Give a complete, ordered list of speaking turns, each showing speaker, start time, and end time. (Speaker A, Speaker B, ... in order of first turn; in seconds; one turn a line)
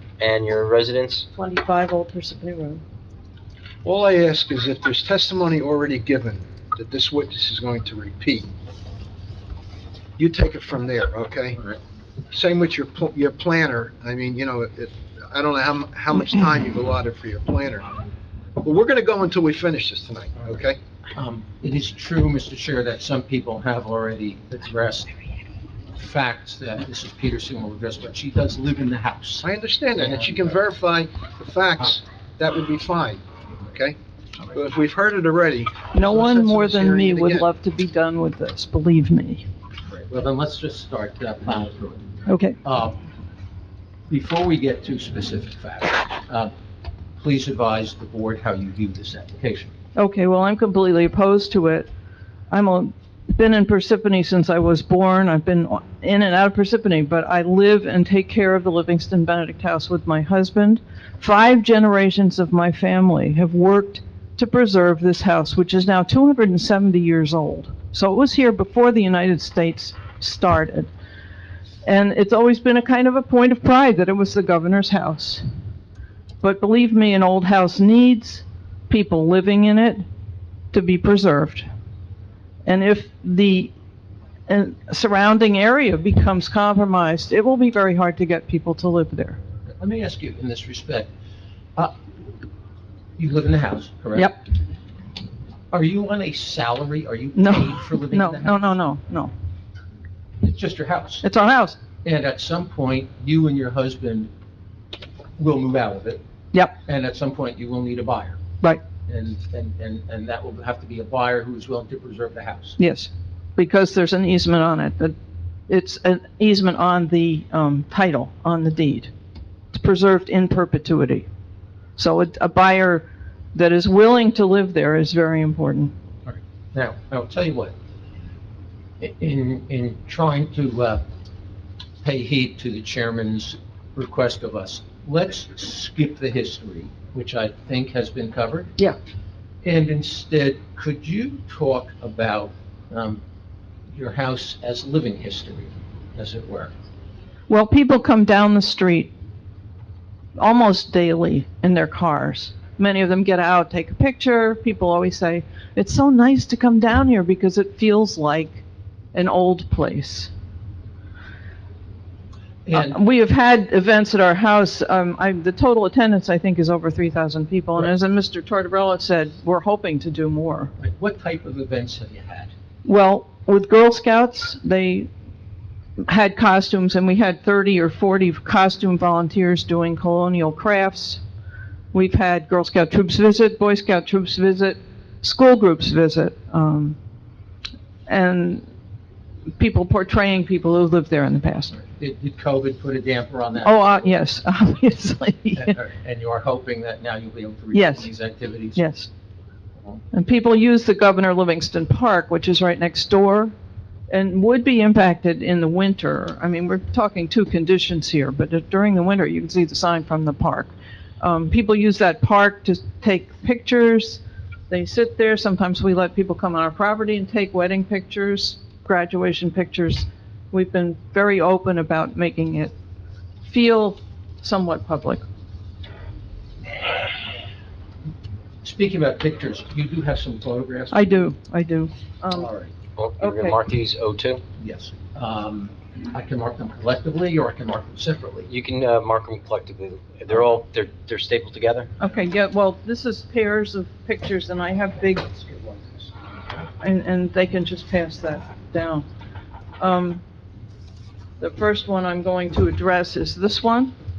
Speaker A: 0.2-1.3
Speaker B: 1.3-2.8
Speaker C: 3.8-8.5
Speaker C: 10.2-11.6
Speaker C: 12.3-17.9
Speaker C: 18.6-20.8
Speaker D: 21.1-25.1
Speaker D: 25.9-30.6
Speaker C: 29.4-34.0
Speaker C: 34.5-37.5
Speaker B: 35.9-39.5
Speaker D: 39.9-42.1
Speaker B: 42.3-42.6
Speaker D: 42.6-43.0
Speaker D: 44.1-46.5
Speaker D: 47.2-49.7
Speaker B: 50.0-51.9
Speaker B: 52.5-70.9
Speaker B: 71.8-75.4
Speaker B: 76.4-80.0
Speaker B: 80.7-81.7
Speaker B: 82.7-83.7
Speaker B: 84.5-89.4
Speaker D: 89.8-91.1
Speaker D: 93.2-94.3
Speaker D: 95.7-98.6
Speaker B: 97.3-99.3
Speaker D: 100.4-101.2
Speaker B: 101.2-101.8
Speaker D: 102.0-104.3
Speaker D: 105.4-106.2
Speaker D: 106.8-108.4
Speaker D: 109.1-112.8
Speaker B: 112.8-115.1
Speaker B: 115.7-119.1
Speaker B: 119.7-121.3
Speaker B: 122.0-125.9
Speaker D: 126.3-127.7
Speaker D: 129.0-131.0
Speaker D: 132.0-138.7
Speaker D: 139.6-143.2
Speaker D: 143.9-146.7
Speaker B: 147.5-149.1
Speaker B: 150.3-158.6
Speaker B: 159.1-160.3
Speaker D: 162.7-163.0
Speaker B: 162.7-170.7
Speaker D: 170.8-172.5
Speaker B: 172.8-175.1
Speaker B: 176.0-181.2
Speaker B: 181.9-187.0
Speaker B: 188.1-188.7
Speaker B: 189.6-191.7
Speaker D: 191.7-193.9
Speaker B: 193.6-195.7
Speaker D: 195.6-198.8
Speaker B: 197.7-198.1
Speaker B: 198.7-199.1
Speaker B: 200.1-203.5
Speaker B: 204.1-222.7
Speaker B: 223.4-225.2
Speaker D: 228.6-231.3
Speaker B: 230.9-232.5
Speaker D: 232.3-232.7
Speaker A: 232.9-234.4
Speaker B: 233.2-233.6
Speaker D: 234.6-238.5
Speaker A: 238.5-241.9
Speaker B: 242.0-245.4
Speaker D: 245.4-246.0
Speaker B: 246.8-249.1
Speaker B: 249.8-250.2
Speaker B: 251.4-253.9